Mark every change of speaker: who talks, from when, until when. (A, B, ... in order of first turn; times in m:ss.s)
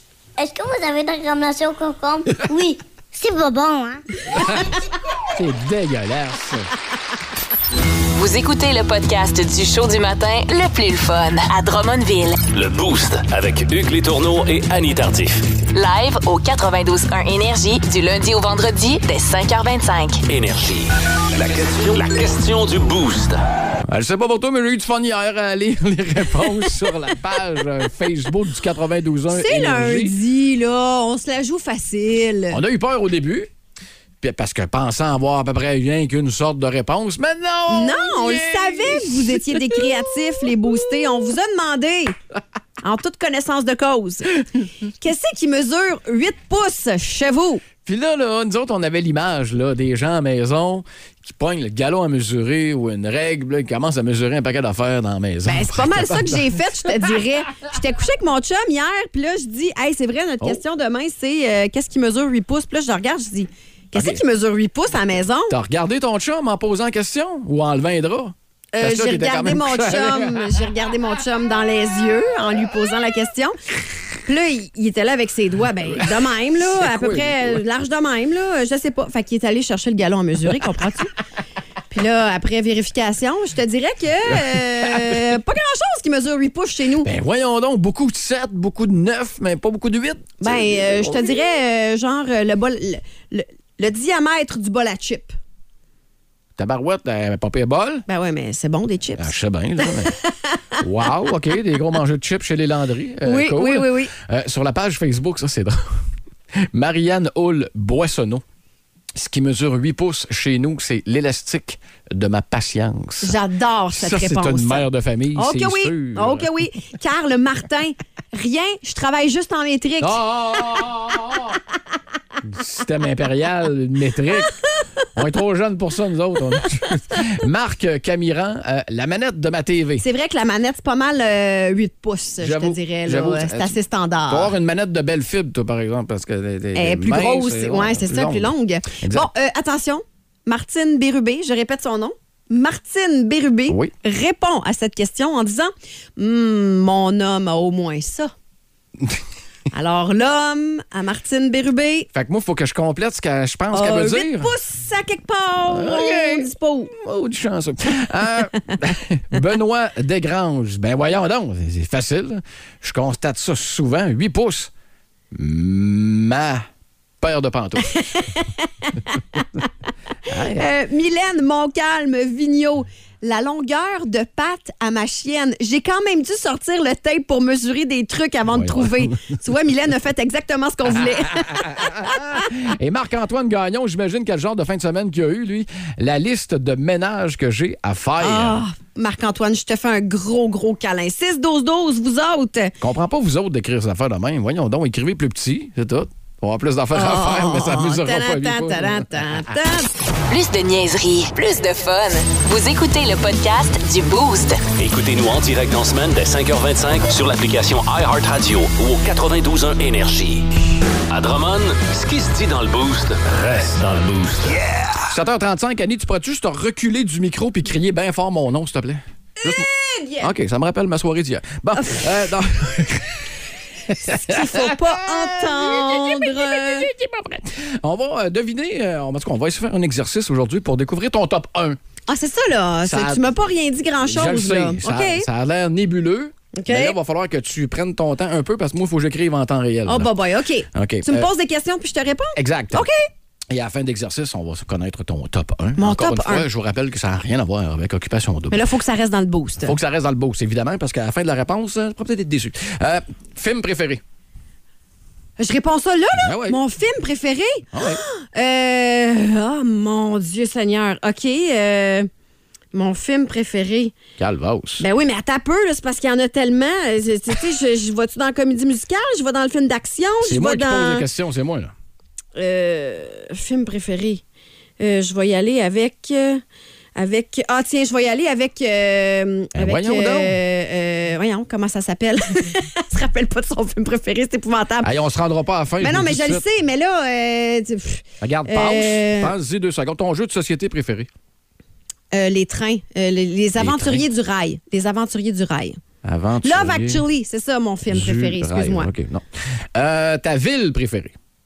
0:00.4-0:04.0 A
0:05.3-0:06.7 B
0:08.1-0:12.4 C
0:12.5-0:15.5 D
0:15.7-0:20.2 C
0:20.3-0:23.4 D
0:23.8-0:30.1 B
0:29.3-0:32.6 E
0:32.5-0:33.5 B
0:34.2-0:40.7 B
0:37.7-0:42.2 E
0:42.8-0:47.6 E
0:47.8-0:57.2 B
0:55.4-1:05.5 E
1:03.9-1:04.2 B
1:05.5-1:10.6 B
1:08.7-1:13.6 E
1:14.2-1:21.1 E
1:16.0-1:17.6 B
1:21.9-1:27.1 E
1:24.3-1:25.3 B
1:27.0-1:31.4 B
1:30.4-1:35.4 E
1:36.6-1:38.0 B
1:38.1-1:40.8 E
1:39.2-1:40.2 B
1:40.8-1:45.8 B
1:43.2-1:44.1 E
1:46.7-1:48.4 B
1:49.2-1:53.4 B
1:53.2-2:00.2 E
1:53.9-1:56.5 B
2:00.0-2:01.6 B
2:02.4-2:04.6 B
2:05.1-2:10.0 B
2:10.0-2:14.5 E
2:12.4-2:19.3 B
2:16.7-2:28.3 E
2:29.7-2:32.1 E
2:32.1-2:34.5 B
2:33.7-2:36.9 E
2:35.6-2:44.7 B
2:45.3-2:46.6 B
2:47.2-2:47.8 B
2:48.0-2:49.4 E
2:50.3-2:50.7 B
2:50.5-3:02.3 E
2:58.4-2:59.2 B
3:00.8-3:08.6 B
3:08.2-3:12.8 E
3:12.8-3:19.4 B
3:16.9-3:19.9 E
3:20.3-3:24.6 C
3:24.8-3:30.4 D
3:31.1-3:34.8 D
3:35.1-3:39.7 B
3:39.4-3:40.3 E
3:40.2-3:43.2 B
3:43.9-3:51.8 B
3:44.0-3:46.9 E
3:52.1-3:55.3 E
3:52.8-3:53.3 B
3:54.0-4:00.1 B
3:56.5-3:57.0 E
3:59.8-4:03.0 E
4:00.7-4:01.3 B
4:02.4-4:02.9 B
4:03.5-4:08.6 B
4:05.8-4:06.5 E
4:08.5-4:09.8 E
4:09.6-4:14.0 B
4:15.4-4:22.1 E
4:16.2-4:16.6 B
4:17.7-4:18.0 B
4:22.7-4:23.9 E
4:24.2-4:24.8 B
4:24.8-4:31.1 E
4:30.2-4:31.7 B
4:32.3-4:34.2 E
4:34.8-4:36.4 E
4:37.0-4:44.9 E
4:39.5-4:40.4 B
4:44.8-4:46.5 B
4:45.8-4:49.3 E
4:48.2-4:51.1 B
4:52.1-4:55.8 E
4:53.5-4:54.0 B
4:56.0-4:57.0 B
4:56.4-4:58.9 E
4:57.8-5:01.1 B